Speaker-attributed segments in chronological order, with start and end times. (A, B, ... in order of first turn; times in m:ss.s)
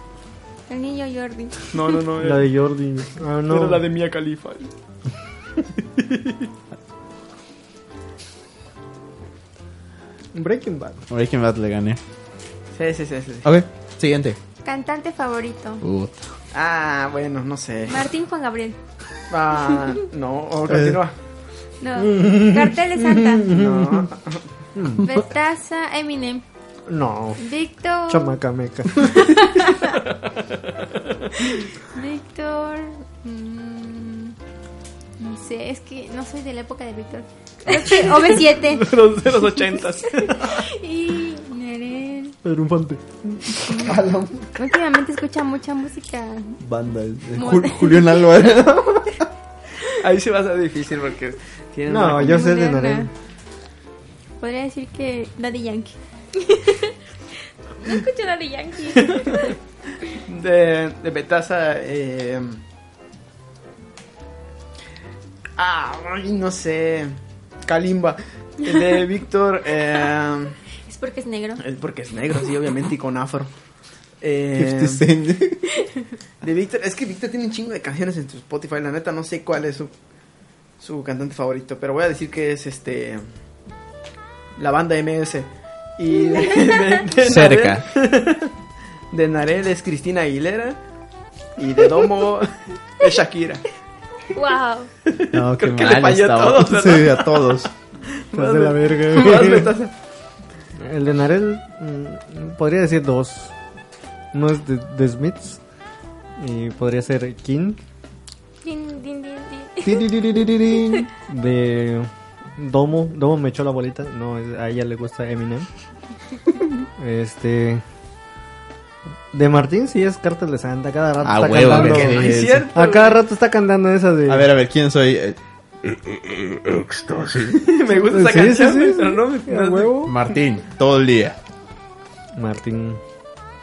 0:00.7-0:01.8 A
0:01.7-0:02.5 B
0:02.2-0:03.8 C
0:03.5-0:04.7 B
0:05.8-0:06.5 B
0:10.3-0:11.0 C
0:11.1-0:12.0 D
0:12.8-0:13.5 B
0:13.4-0:14.4 D
0:14.6-0:15.8 A
0:15.8-0:16.2 D
0:16.5-0:18.0 B
0:17.9-0:18.8 A
0:19.3-0:21.1 B
0:21.8-0:23.5 A
0:22.0-0:24.1 C
0:23.5-0:24.4 B
0:24.7-0:25.1 C
0:25.0-0:26.4 A
0:26.9-0:27.4 C
0:27.4-0:28.4 A
0:28.1-0:29.3 C
0:29.2-0:30.0 A
0:31.4-0:34.4 A
0:35.2-0:39.0 A
0:37.9-0:40.6 B
0:40.2-0:42.4 A
0:42.4-0:43.6 C
0:43.6-0:44.0 A
0:43.7-0:44.5 D
0:44.5-0:46.6 A
0:46.6-0:49.3 D
0:47.3-0:48.3 A
0:49.9-0:52.5 B
0:51.9-0:53.1 C
0:52.2-0:53.1 A
0:54.4-0:56.0 A
0:56.4-0:57.0 E
0:57.8-0:59.6 E
0:59.0-0:59.5 B
1:00.2-1:02.6 B
1:05.6-1:10.6 B
1:10.9-1:11.6 A
1:11.6-1:13.5 B
1:14.2-1:15.0 B
1:14.6-1:15.7 D
1:16.4-1:19.9 B
1:20.8-1:23.2 B
1:24.6-1:28.5 B
1:27.2-1:27.9 D
1:29.1-1:30.8 B
1:31.6-1:33.6 B
1:34.3-1:34.9 E
1:35.0-1:39.9 B
1:35.3-1:37.7 D
1:38.3-1:39.7 C
1:40.8-1:43.5 C
1:44.3-1:45.6 C
1:46.4-1:47.8 C
1:48.6-1:50.2 E
1:49.8-1:51.1 D
1:51.2-1:55.7 C
1:57.0-1:57.8 C
1:59.3-2:04.5 C
2:01.2-2:02.7 D
2:01.6-2:03.2 B
2:04.3-2:07.7 D
2:07.5-2:10.0 B
2:07.9-2:10.2 C
2:10.0-2:11.4 D
2:12.3-2:13.0 C